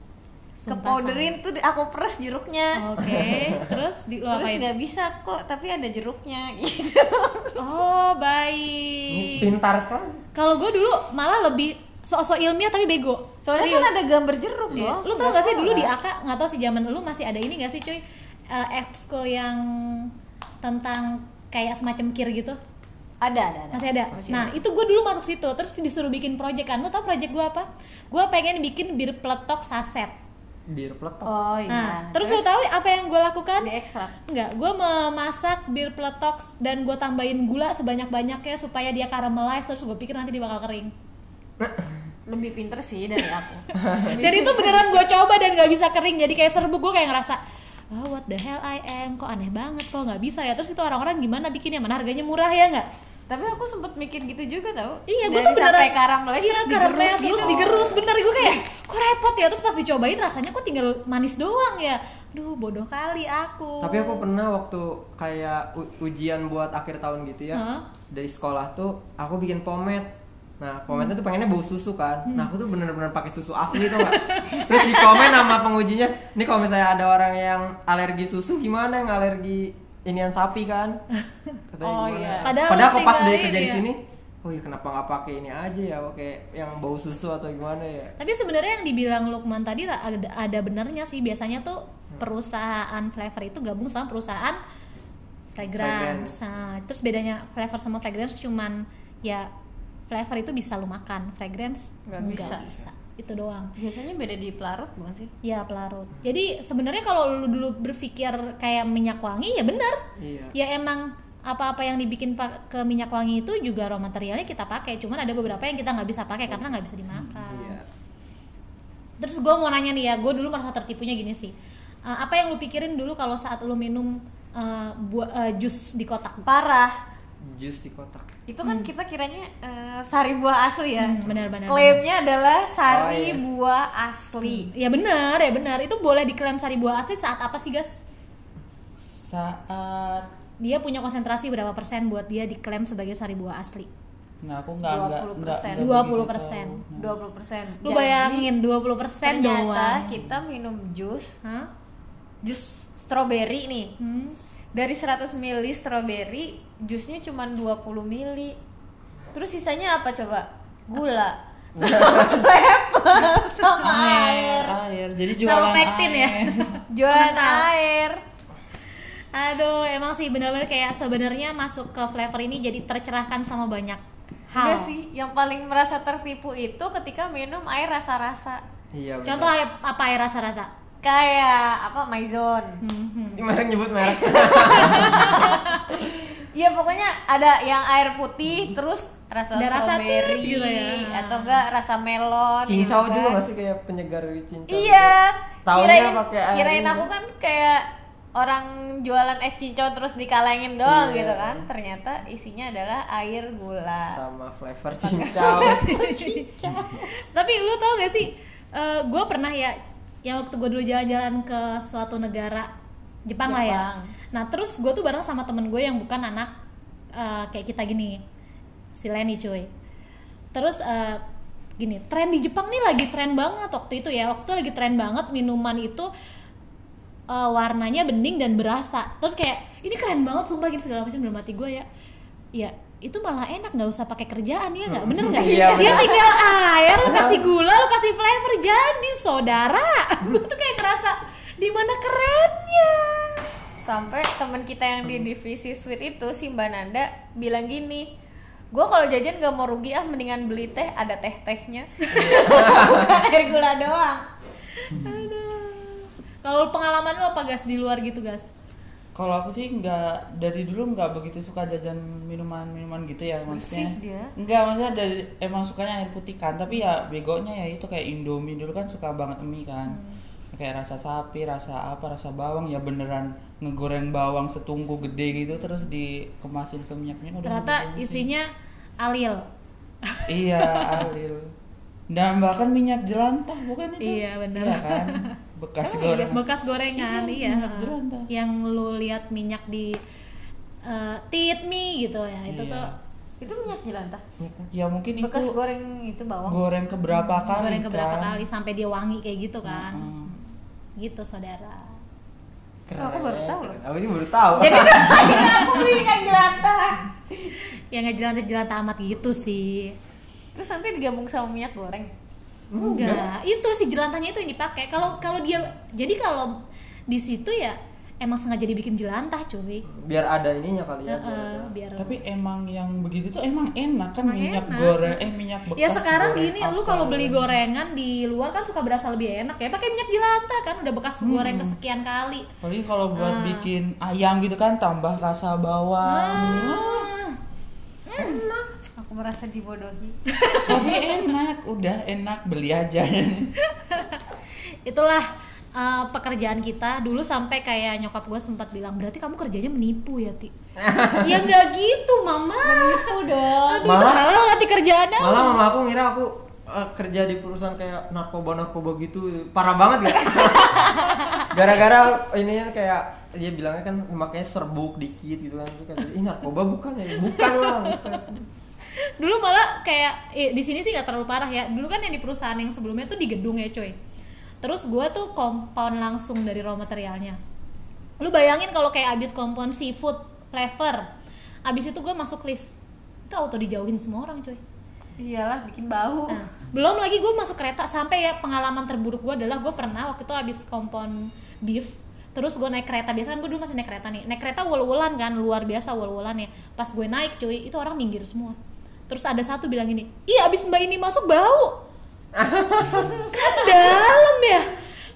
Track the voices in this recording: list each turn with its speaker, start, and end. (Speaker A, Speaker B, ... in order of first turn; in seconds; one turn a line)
Speaker A: 0.6-1.4
Speaker B: 0.7-3.5
Speaker A: 2.8-4.7
Speaker C: 3.1-3.6
Speaker B: 4.3-7.6
Speaker A: 7.6-9.5
Speaker C: 9.1-10.2
Speaker A: 10.3-13.9
Speaker B: 13.4-15.9
Speaker C: 14.7-15.0
Speaker A: 14.8-20.1
Speaker A: 20.6-22.6
Speaker B: 23.2-24.5
Speaker A: 23.7-30.1
Speaker C: 24.1-24.5
Speaker C: 30.7-31.3
Speaker B: 31.3-32.4
Speaker A: 31.7-33.7
Speaker B: 33.6-34.2
Speaker A: 34.3-40.9
Speaker C: 41.6-41.9
Speaker B: 42.3-44.9
Speaker C: 43.8-44.2
Speaker A: 44.0-47.4
Speaker A: 47.9-52.9
Speaker B: 53.3-58.6
Speaker A: 55.1-64.2
Speaker C: 57.4-57.9
Speaker C: 63.8-70.1
Speaker A: 67.5-67.8
Speaker C: 70.6-81.0
Speaker A: 73.8-75.5
Speaker C: 81.7-88.2
Speaker B: 81.8-82.5
Speaker A: 82.4-83.8
Speaker A: 88.2-94.6
Speaker A: 95.5-99.5
Speaker C: 95.6-96.5
Speaker A: 100.1-103.7
Speaker B: 102.1-102.8
Speaker B: 103.8-105.3
Speaker A: 105.4-110.0
Speaker C: 110.2-110.5
Speaker A: 110.5-117.8
Speaker C: 117.4-117.9
Speaker A: 119.2-121.5
Speaker A: 122.1-126.5
Speaker B: 126.4-127.0
Speaker C: 127.4-128.3
Speaker B: 128.5-134.7
Speaker A: 128.6-128.9
Speaker A: 131.0-132.0
Speaker C: 132.9-133.4
Speaker A: 134.4-138.0
Speaker D: 139.0-140.3
Speaker A: 140.6-143.9
Speaker D: 144.4-147.1
Speaker B: 144.8-146.1
Speaker A: 145.8-146.8
Speaker B: 146.9-148.5
Speaker A: 147.8-150.1
Speaker B: 149.2-151.4
Speaker A: 151.4-151.7
Speaker B: 152.4-154.0
Speaker A: 154.0-154.3
Speaker B: 154.8-158.6
Speaker B: 159.3-164.8
Speaker C: 161.8-162.3
Speaker D: 163.8-166.8
Speaker A: 165.4-167.7
Speaker B: 166.9-168.2
Speaker A: 169.3-174.9
Speaker B: 174.6-178.6
Speaker C: 178.9-179.5
Speaker A: 179.2-180.7
Speaker B: 181.0-182.8
Speaker A: 182.8-183.4
Speaker C: 183.4-185.5
Speaker B: 184.0-193.1
Speaker A: 184.7-185.9
Speaker A: 189.6-191.6
Speaker C: 192.7-195.1
Speaker A: 192.9-193.2
Speaker B: 194.7-204.2
Speaker C: 195.7-197.1
Speaker C: 200.8-201.7
Speaker C: 204.1-205.9
Speaker B: 205.0-207.1
Speaker A: 205.6-206.4
Speaker A: 207.1-212.7
Speaker A: 213.3-216.5
Speaker B: 213.5-214.1
Speaker A: 217.2-218.2
Speaker A: 219.0-219.7
Speaker A: 220.5-221.2
Speaker A: 221.8-226.1
Speaker A: 227.3-231.9
Speaker A: 232.6-243.4
Speaker D: 234.9-236.2
Speaker B: 235.3-236.4
Speaker B: 243.8-248.1
Speaker B: 248.7-254.2
Speaker C: 252.4-252.9
Speaker A: 254.8-258.5
Speaker D: 254.9-255.3
Speaker D: 259.2-270.0
Speaker B: 263.5-264.3
Speaker A: 269.9-270.2
Speaker D: 270.5-278.3
Speaker A: 277.4-278.5
Speaker A: 279.0-279.5
Speaker A: 280.1-281.0
Speaker D: 280.3-281.5
Speaker D: 282.1-286.4
Speaker A: 284.0-285.3
Speaker B: 285.9-286.3
Speaker A: 286.2-290.0
Speaker D: 286.9-288.3
Speaker A: 290.8-292.9
Speaker D: 292.5-293.0
Speaker B: 293.4-294.2
Speaker C: 294.4-294.7
Speaker D: 294.7-295.6
Speaker B: 295.2-296.6
Speaker D: 296.5-298.4
Speaker A: 297.1-300.4
Speaker D: 299.6-300.3
Speaker A: 301.0-302.0
Speaker C: 302.9-305.4
Speaker B: 303.0-303.8
Speaker B: 304.6-307.5
Speaker A: 307.9-310.0
Speaker B: 310.6-312.1
Speaker C: 312.7-313.3
Speaker A: 312.8-319.9
Speaker C: 319.9-321.7
Speaker A: 321.1-322.2
Speaker D: 322.0-327.6
Speaker A: 324.2-325.2
Speaker A: 325.8-332.5
Speaker D: 331.2-331.8
Speaker D: 332.6-337.1
Speaker A: 333.2-333.7
Speaker A: 336.0-337.4
Speaker A: 338.1-338.4
Speaker B: 338.2-340.2
Speaker A: 340.3-341.1
Speaker D: 340.6-343.5
Speaker A: 343.6-344.2
Speaker A: 344.9-350.5
Speaker C: 350.8-351.5
Speaker A: 351.2-355.6
Speaker B: 352.6-354.0
Speaker C: 353.8-354.4
Speaker C: 355.2-361.0
Speaker A: 360.6-361.5
Speaker C: 361.5-368.5
Speaker A: 367.2-368.2
Speaker A: 369.0-374.0
Speaker A: 374.6-377.4
Speaker A: 378.2-381.1
Speaker A: 381.7-382.7
Speaker A: 383.3-384.6
Speaker B: 385.2-386.4
Speaker A: 386.3-398.6
Speaker A: 399.1-401.8
Speaker C: 402.4-403.2
Speaker B: 402.9-404.3
Speaker A: 403.3-404.8